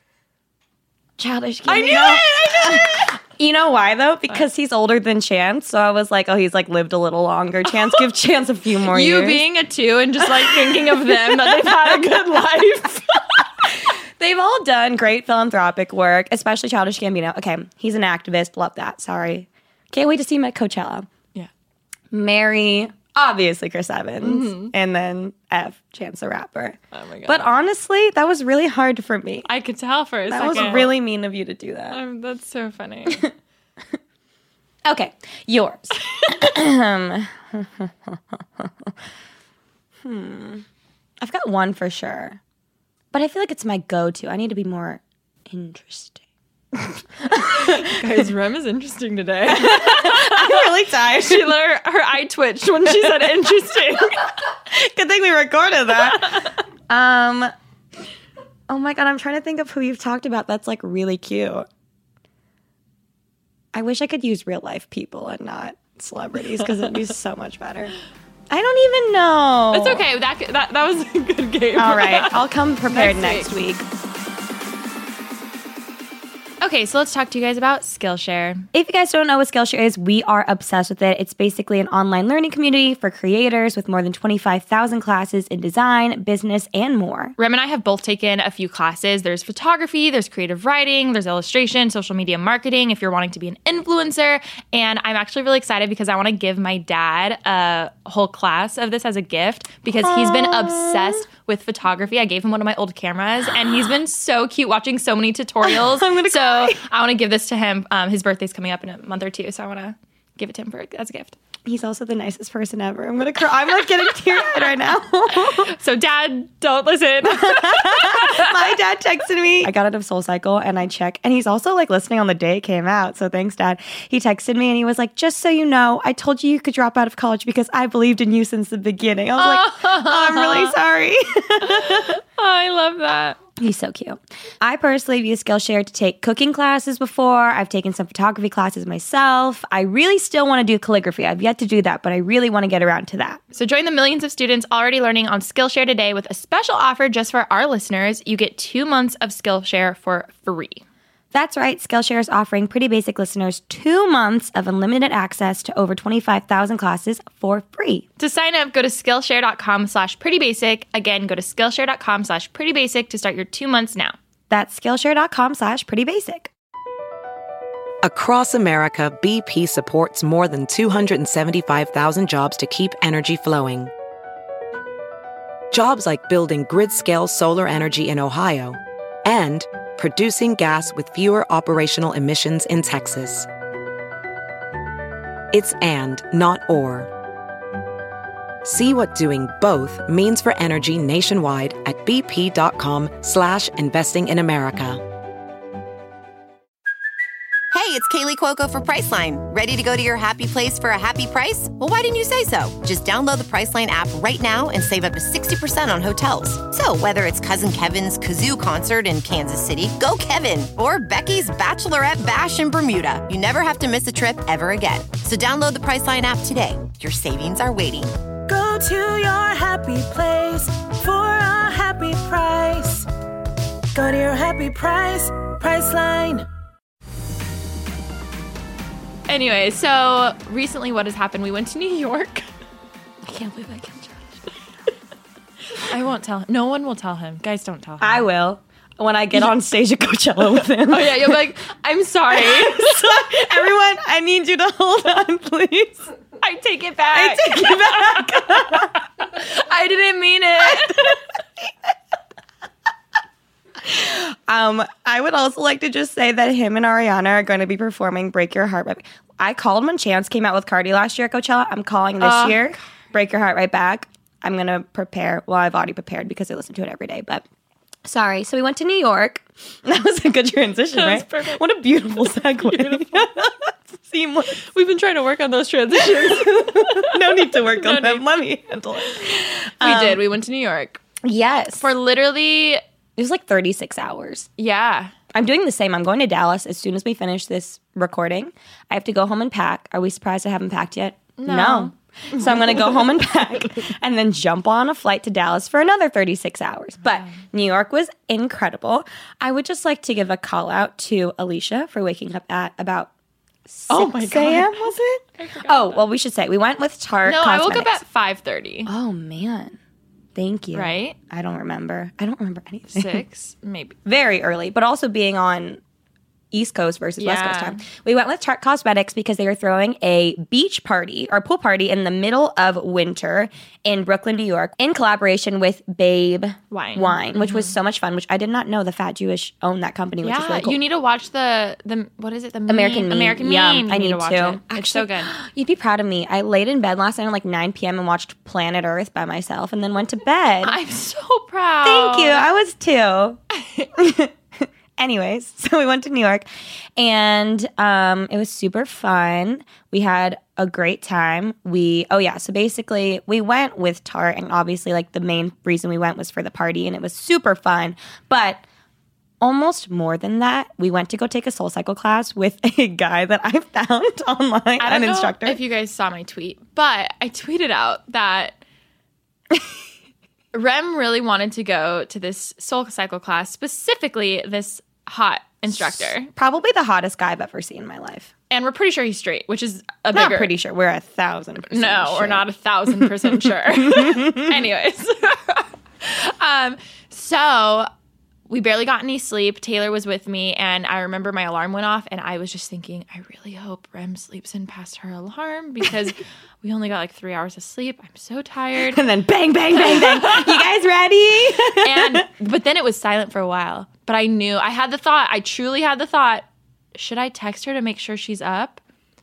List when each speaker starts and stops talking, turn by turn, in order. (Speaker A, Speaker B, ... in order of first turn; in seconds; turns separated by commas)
Speaker A: 1.2-9.4, Speaker B: 1.6-3.1, Speaker B: 8.9-13.4, Speaker A: 10.2-12.0, Speaker A: 14.2-21.1, Speaker A: 22.1-29.5, Speaker B: 24.2-24.7, Speaker B: 26.9-27.5, Speaker B: 29.4-30.9, Speaker A: 30.3-32.0, Speaker B: 31.9-33.2, Speaker A: 34.9-38.9, Speaker A: 40.0-40.6, Speaker A: 41.2-42.4, Speaker A: 43.1-46.2, Speaker A: 47.2-48.0, Speaker B: 47.5-54.3, Speaker A: 49.5-51.5, Speaker A: 52.9-53.3, Speaker A: 54.6-57.5, Speaker B: 56.1-56.5, Speaker A: 58.7-61.6, Speaker A: 63.7-67.9, Speaker A: 68.5-70.0, Speaker B: 69.7-73.5, Speaker A: 71.8-73.8, Speaker B: 76.6-78.6, Speaker A: 78.7-87.3, Speaker B: 87.4-111.3, Speaker A: 100.0-101.2, Speaker A: 105.6-106.8, Speaker A: 111.7-115.7, Speaker B: 115.3-118.6, Speaker A: 117.2-132.2, Speaker B: 129.4-130.7, Speaker B: 131.6-133.4, Speaker A: 133.6-143.4, Speaker B: 143.5-150.8, Speaker A: 151.3-158.0, Speaker B: 158.2-164.2, Speaker A: 164.5-166.5, Speaker C: 168.0-173.9, Speaker C: 175.7-183.5, Speaker C: 185.5-187.1, Speaker C: 188.6-195.0, Speaker D: 197.7-218.1, Speaker E: 218.5-223.1, Speaker E: 223.9-226.4, Speaker B: 229.3-232.5, Speaker A: 233.2-234.3, Speaker B: 235.7-238.3, Speaker A: 238.0-241.4, Speaker B: 240.8-243.4, Speaker A: 242.3-246.0, Speaker B: 246.4-251.2, Speaker A: 247.1-249.0, Speaker A: 250.6-251.7, Speaker A: 253.8-267.4, Speaker B: 262.2-262.7, Speaker A: 268.0-274.6, Speaker B: 270.9-271.6, Speaker B: 272.2-273.3, Speaker B: 274.6-278.2, Speaker A: 276.0-280.2, Speaker B: 279.8-281.0, Speaker A: 281.2-281.9, Speaker B: 281.8-282.8, Speaker A: 283.2-284.5, Speaker B: 284.6-285.1, Speaker A: 285.3-303.1, Speaker B: 291.4-293.1, Speaker A: 303.6-308.0, Speaker B: 303.9-306.0, Speaker B: 307.2-308.9, Speaker A: 308.9-309.8, Speaker A: 310.4-313.2, Speaker B: 310.7-311.1, Speaker B: 312.9-314.0, Speaker A: 314.0-315.8, Speaker A: 316.5-330.8, Speaker B: 317.2-317.8, Speaker B: 326.7-327.7, Speaker B: 330.2-335.3, Speaker A: 332.7-340.8, Speaker B: 340.6-342.4, Speaker A: 341.8-343.4, Speaker B: 343.5-343.9, Speaker A: 343.9-358.6, Speaker A: 359.4-365.6, Speaker B: 364.8-368.6, Speaker B: 370.5-376.3, Speaker A: 375.7-378.3, Speaker B: 378.5-380.5, Speaker A: 380.1-383.3, Speaker B: 381.7-387.9, Speaker A: 383.9-384.5, Speaker B: 388.5-399.0, Speaker A: 398.9-402.2, Speaker B: 399.8-400.6, Speaker B: 401.7-408.8